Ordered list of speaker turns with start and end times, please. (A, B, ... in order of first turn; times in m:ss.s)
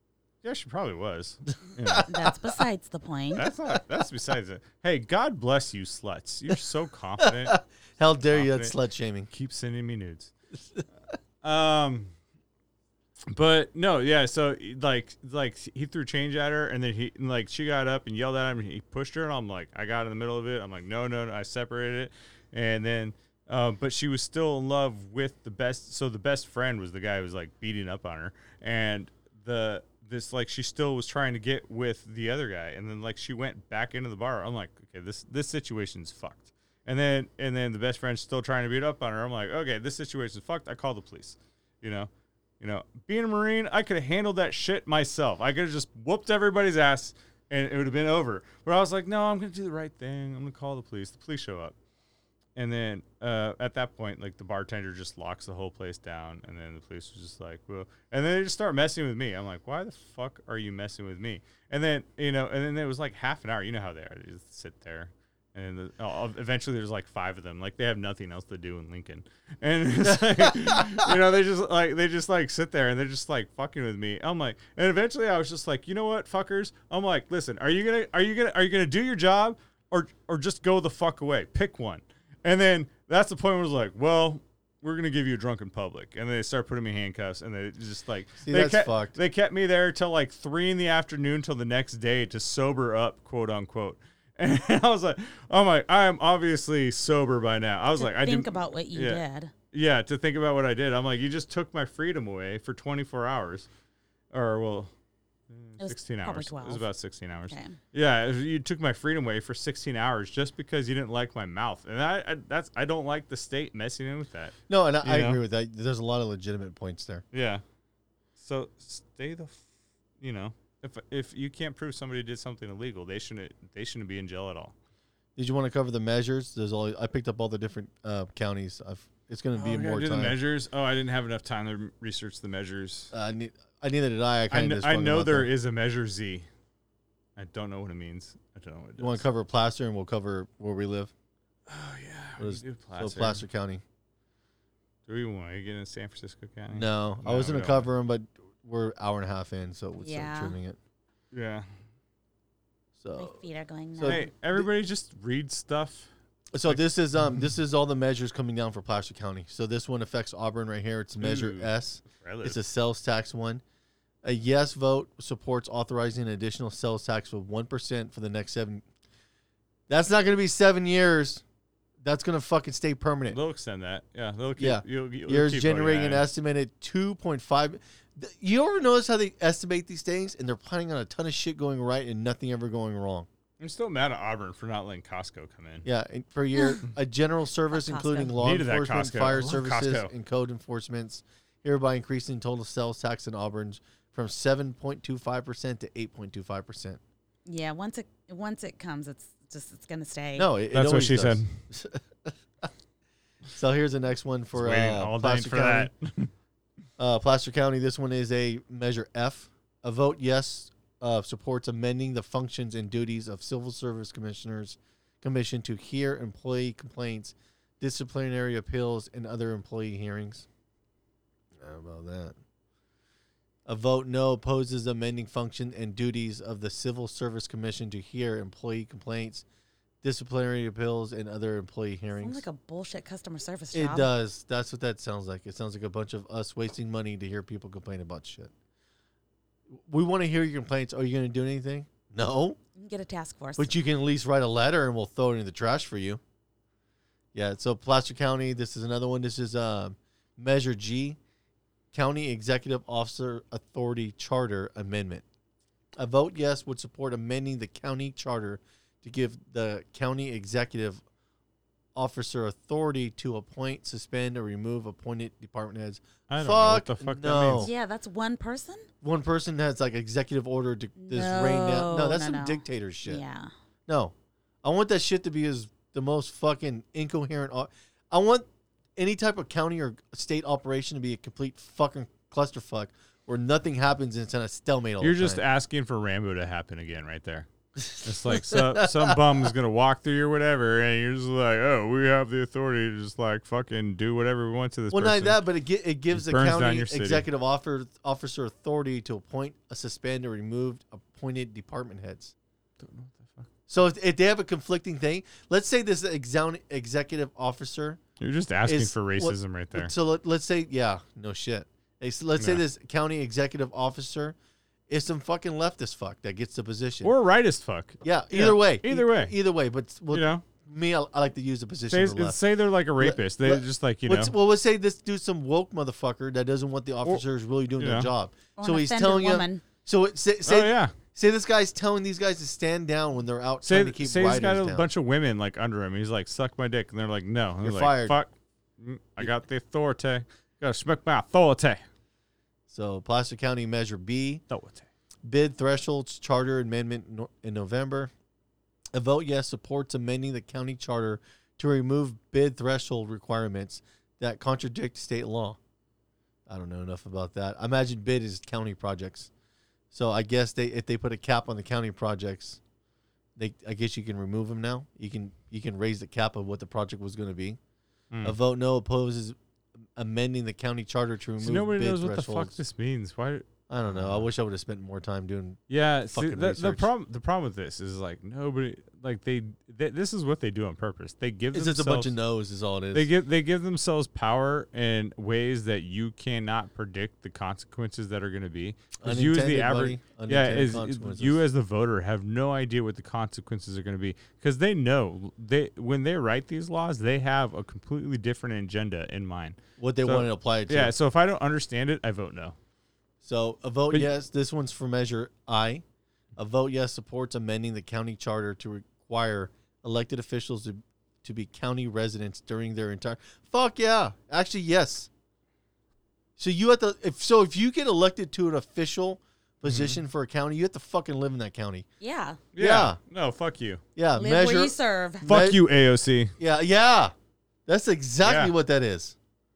0:00.4-0:02.0 A
0:02.0-0:03.4 B
0:03.3-0:07.6 A
0:07.2-0:09.3 C
0:08.3-0:08.7 A
0:09.3-0:10.3 A
0:11.4-0:12.1 A
0:13.3-0:51.7 A
0:52.6-1:43.7 A
1:10.0-1:10.9 C
1:28.4-1:29.2 C
1:38.0-1:39.5 B
1:44.3-1:44.9 A
1:45.5-1:55.4 A
1:45.8-1:46.8 B
1:47.5-1:47.8 B
1:54.7-1:57.2 C
1:57.3-1:57.6 A
1:58.4-1:59.6 A
2:00.2-2:04.7 A
2:05.4-2:10.4 C
2:09.6-2:13.1 A
2:13.1-2:15.5 C
2:14.5-2:16.5 A
2:17.4-2:19.2 A
2:19.0-2:21.1 C
2:21.7-2:23.4 A
2:22.4-2:23.8 C
2:25.0-2:27.9 A
2:26.7-2:30.8 C
2:30.0-2:30.6 B
2:31.3-2:31.7 A
2:33.0-2:33.4 C
2:33.1-2:34.2 B
2:33.9-2:34.7 C
2:34.0-2:36.1 A
2:36.5-2:43.6 C
2:41.2-2:42.6 A
2:44.2-2:48.8 C
2:49.9-2:51.4 C
2:52.0-2:53.4 C
2:53.3-2:56.2 A
2:54.6-3:03.3 C
3:03.6-3:05.8 A
3:05.8-3:17.0 C
3:06.5-3:06.8 B
3:07.7-3:08.4 B
3:08.4-3:10.1 A
3:17.4-3:20.5 B
3:20.3-3:22.7 C
3:20.7-3:21.6 A
3:23.5-3:25.9 C
3:24.5-3:26.3 A
3:27.0-3:40.5 C
3:41.5-3:42.4 C
3:43.6-3:49.4 C
3:50.0-3:52.4 C
3:52.1-3:54.1 B
3:53.7-3:58.5 C
3:59.7-4:02.6 C
4:02.8-4:03.7 B
4:03.6-4:06.2 C
4:07.3-4:11.2 C
4:11.9-4:15.2 C
4:16.0-4:21.0 C
4:21.9-4:27.7 C
4:26.3-4:27.7 A
4:27.6-4:28.9 B
4:29.0-4:33.2 C
4:31.0-4:33.5 B
4:33.9-4:45.4 C
4:45.0-4:55.4 A
4:47.8-4:49.2 C
4:54.9-5:02.3 C
4:56.1-4:57.2 A
5:02.8-5:03.5 A
5:03.7-5:08.0 C
5:08.2-5:09.9 A
5:08.6-5:14.4 C
5:14.9-5:17.1 C
5:17.0-5:19.3 A
5:18.0-5:22.4 C
5:20.1-5:20.4 A
5:21.9-5:24.3 A
5:23.0-5:34.8 C
5:27.8-5:28.1 A
5:28.6-5:29.6 B
5:30.4-5:30.9 A
5:33.6-5:41.8 A
5:37.6-5:38.2 C
5:42.7-5:44.4 C
5:44.5-5:44.9 A
5:45.2-5:48.1 C
5:48.9-5:55.6 C
5:56.5-5:59.3 C
5:59.9-6:02.6 C
6:03.4-6:07.6 C
6:08.1-6:08.4 A
6:08.2-6:09.4 C
6:09.9-6:12.6 C
6:11.4-6:14.3 A
6:13.7-6:16.9 C
6:15.7-6:22.1 A
6:21.5-6:23.1 C
6:22.9-6:42.6 A
6:29.0-6:31.4 C
6:39.8-6:40.9 C
6:43.2-6:45.8 C
6:46.4-6:55.1 C
6:56.4-7:01.8 C
6:59.6-7:00.0 A
7:02.0-7:02.4 B
7:02.5-7:03.8 A
7:02.6-7:03.0 C
7:04.0-7:05.6 C
7:04.2-7:05.2 B
7:05.2-7:06.3 A
7:06.4-7:07.1 C
7:07.7-7:09.2 C
7:08.2-7:08.5 A